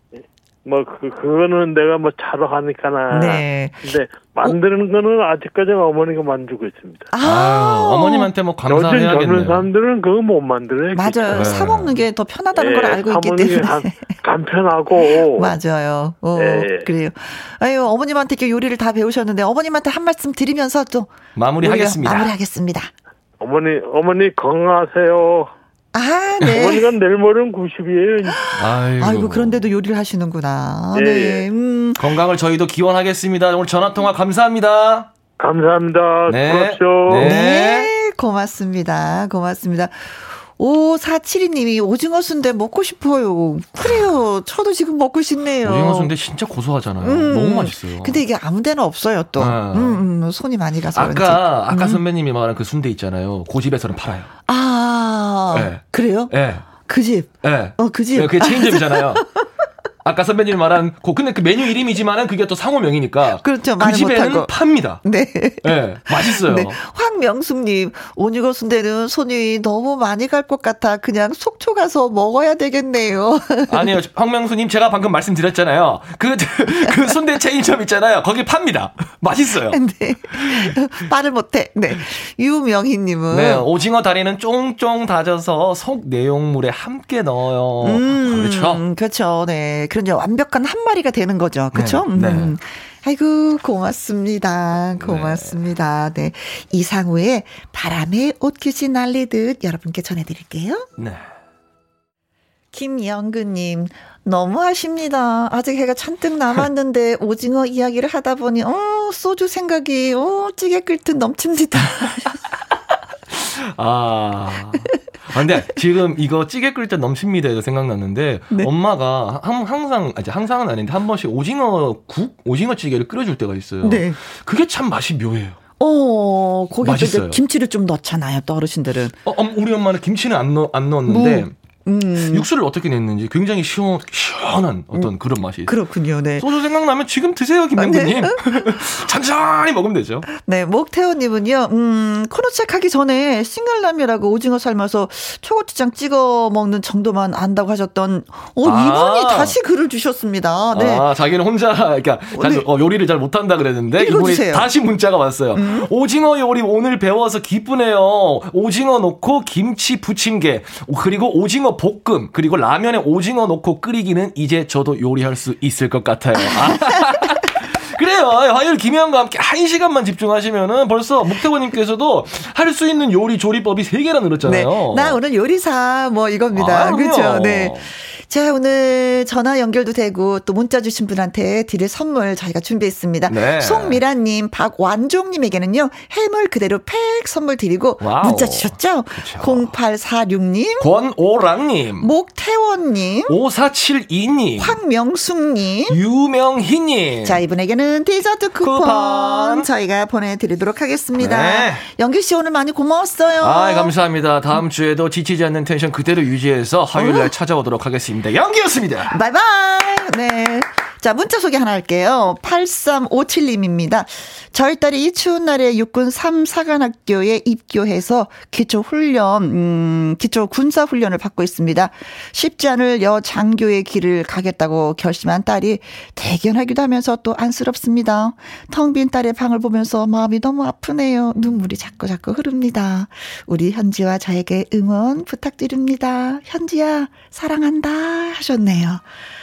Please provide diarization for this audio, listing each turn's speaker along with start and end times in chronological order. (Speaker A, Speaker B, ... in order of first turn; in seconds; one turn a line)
Speaker A: 0.6-7.1
Speaker B: 3.1-4.5
Speaker B: 7.1-8.3
Speaker C: 7.2-9.7
Speaker A: 8.7-11.7
Speaker B: 10.9-14.2
Speaker C: 11.3-11.9
Speaker A: 12.5-15.5
Speaker B: 15.2-22.9
Speaker A: 16.3-16.9
Speaker C: 21.4-22.3
Speaker A: 23.4-25.5
Speaker B: 25.9-26.9
Speaker A: 26.5-28.5
Speaker B: 28.4-32.1
Speaker C: 28.6-29.6
Speaker A: 30.9-31.5
Speaker C: 32.0-35.1
Speaker A: 35.4-37.3
Speaker C: 36.3-37.9
Speaker B: 37.2-46.1
Speaker C: 45.6-48.2
Speaker B: 47.0-52.0
Speaker C: 49.4-50.0
Speaker C: 50.9-54.3
Speaker B: 54.5-59.2
Speaker C: 55.5-56.7
Speaker C: 57.4-59.2
Speaker C: 60.0-65.0
Speaker B: 63.4-64.5
Speaker B: 65.0-73.9
Speaker C: 65.6-66.8
Speaker C: 73.7-79.8
Speaker B: 79.7-83.6
Speaker C: 80.4-80.7
Speaker C: 83.3-88.8
Speaker B: 87.8-100.9
Speaker C: 91.7-92.5
Speaker C: 95.0-95.5
Speaker C: 101.0-101.2
Speaker B: 102.7-112.4
Speaker C: 113.3-125.6
Speaker B: 123.8-124.2
Speaker B: 125.8-129.2
Speaker C: 126.8-127.4
Speaker C: 129.2-131.5
Speaker B: 131.1-132.5
Speaker C: 132.3-135.7
Speaker B: 135.7-136.5
Speaker C: 136.4-140.3
Speaker B: 137.8-138.8
Speaker B: 140.3-151.1
Speaker C: 148.6-149.6
Speaker C: 150.7-175.2
Speaker B: 152.3-152.7
Speaker B: 154.0-154.7
Speaker B: 155.5-155.9
Speaker B: 166.4-166.7
Speaker B: 174.4-190.9
Speaker C: 176.5-177.9
Speaker C: 183.3-184.0
Speaker C: 188.0-189.7
Speaker C: 190.8-192.1
Speaker B: 192.0-193.4
Speaker C: 193.3-194.8
Speaker B: 194.6-196.0
Speaker C: 195.9-197.4
Speaker B: 197.2-203.9
Speaker C: 198.6-199.7
Speaker C: 201.2-201.8
Speaker C: 203.4-209.1
Speaker B: 206.9-207.3
Speaker B: 209.1-239.0